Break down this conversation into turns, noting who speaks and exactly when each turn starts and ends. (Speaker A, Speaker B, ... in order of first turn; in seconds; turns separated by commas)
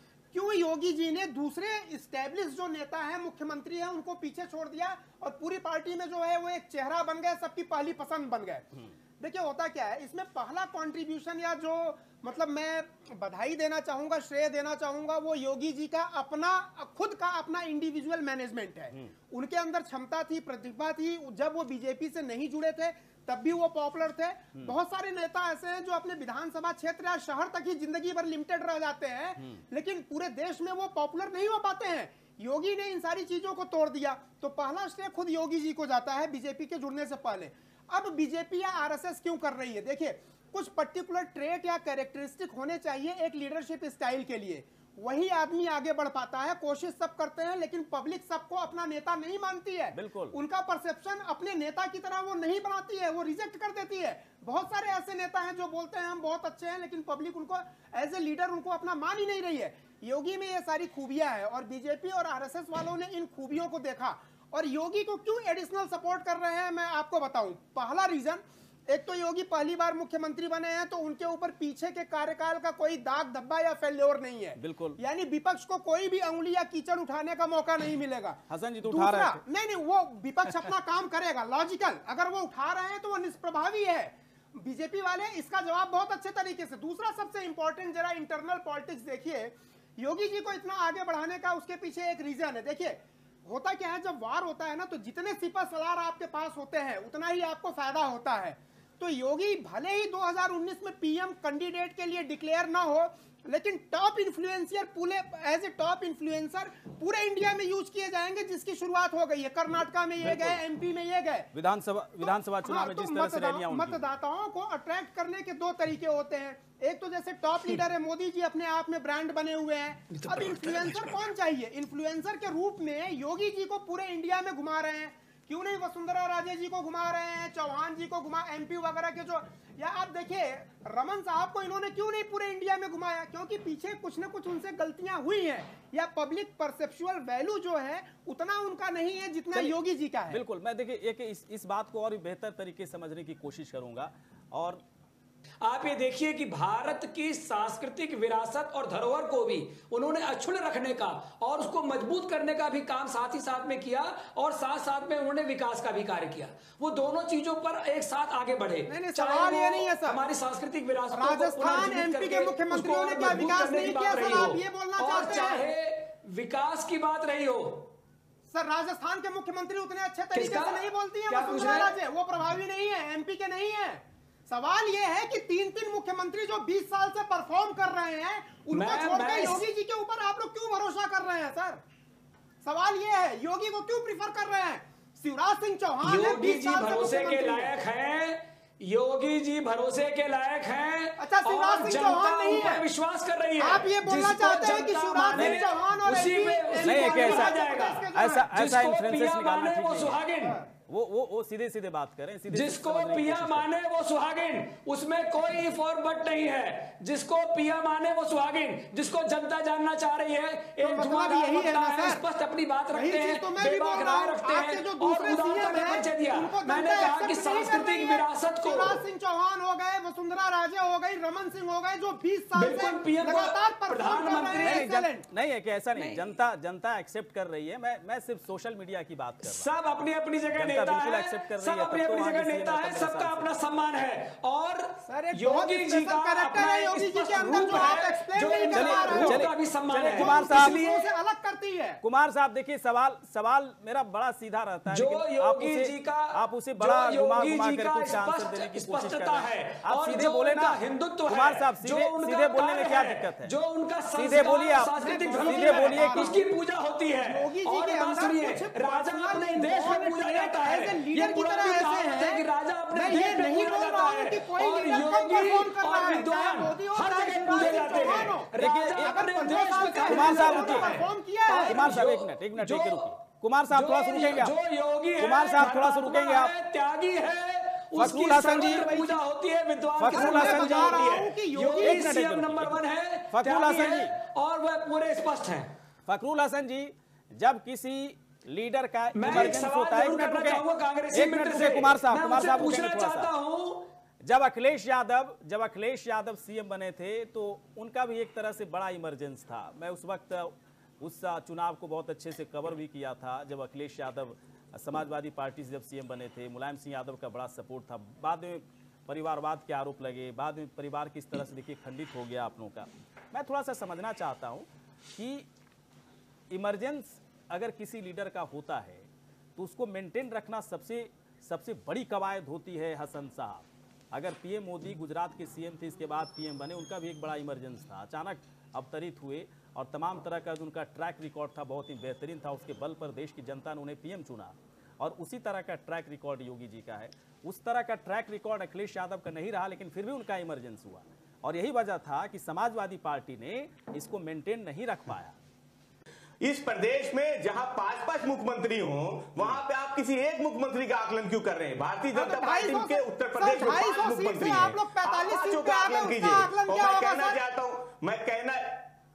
Speaker A: 0.3-111.5, Speaker B: 49.9-50.4, Speaker B: 74.6-75.0, Speaker B: 78.5-79.4, Speaker B: 110.2-110.6, Speaker B: 111.5-114.1, Speaker A: 112.2-140.4, Speaker C: 120.1-121.1, Speaker B: 139.5-144.8, Speaker C: 145.6-167.9, Speaker A: 158.9-160.2, Speaker A: 161.1-165.7, Speaker A: 168.5-181.8, Speaker C: 170.3-171.9, Speaker C: 178.7-179.6, Speaker A: 182.6-187.7, Speaker C: 186.0-200.6, Speaker A: 191.2-192.8, Speaker A: 193.6-198.5, Speaker B: 195.3-195.6, Speaker B: 196.8-197.6, Speaker B: 198.1-200.2, Speaker B: 200.9-203.7, Speaker C: 202.5-219.0, Speaker A: 210.8-212.2, Speaker A: 212.9-225.2, Speaker C: 222.5-224.9, Speaker B: 224.6-229.7, Speaker C: 225.9-226.3, Speaker C: 229.4-241.1, Speaker B: 230.6-233.5, Speaker A: 235.0-239.5, Speaker B: 238.7-240.8, Speaker A: 240.1-242.0, Speaker B: 242.0-253.5, Speaker C: 244.9-273.1, Speaker B: 254.1-256.4, Speaker A: 255.0-256.4, Speaker A: 257.2-262.4, Speaker A: 262.9-271.9, Speaker B: 268.6-269.2, Speaker B: 270.1-270.9, Speaker B: 271.6-274.5, Speaker C: 273.7-285.7, Speaker B: 275.2-276.5, Speaker B: 278.0-279.1, Speaker B: 280.0-281.1, Speaker A: 280.1-282.1, Speaker B: 281.8-282.8, Speaker B: 283.3-284.1, Speaker B: 286.1-293.3, Speaker C: 289.1-293.9, Speaker B: 294.2-315.5, Speaker B: 316.5-345.4, Speaker D: 346.4-358.8, Speaker A: 352.1-357.4